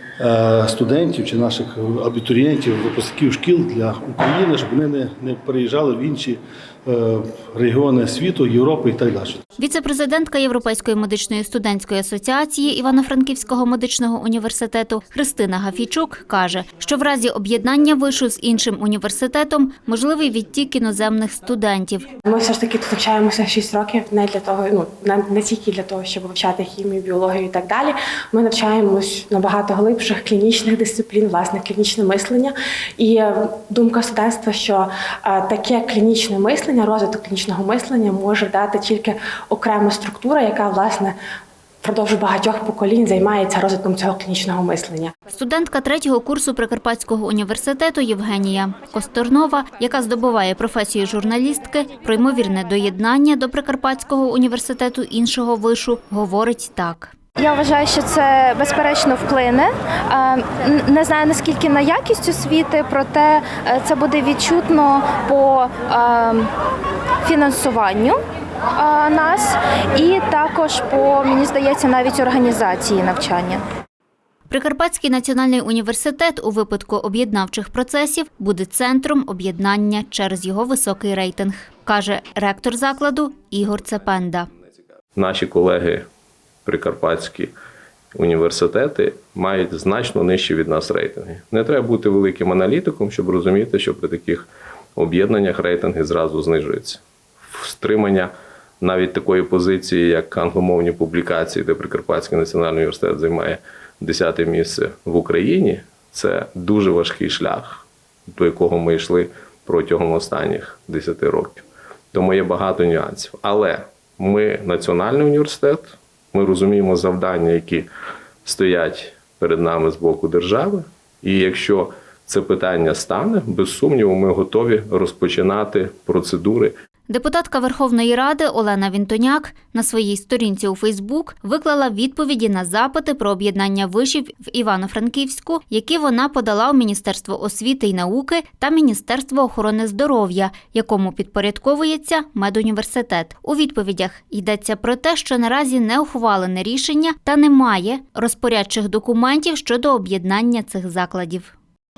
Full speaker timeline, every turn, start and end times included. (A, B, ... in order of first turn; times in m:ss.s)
0:00.2-0:09.4 A
0:09.6-0:22.0 B
0:22.3-0:41.1 C
0:41.8-0:45.1 C
0:45.3-0:57.1 B
0:57.4-1:06.5 D
1:07.2-1:08.2 D
1:08.7-1:13.6 D
1:14.5-1:24.5 B
1:25.1-1:26.1 E
1:26.6-1:27.5 E
1:28.1-1:57.9 E
1:58.4-2:06.7 E
2:07.1-2:31.5 B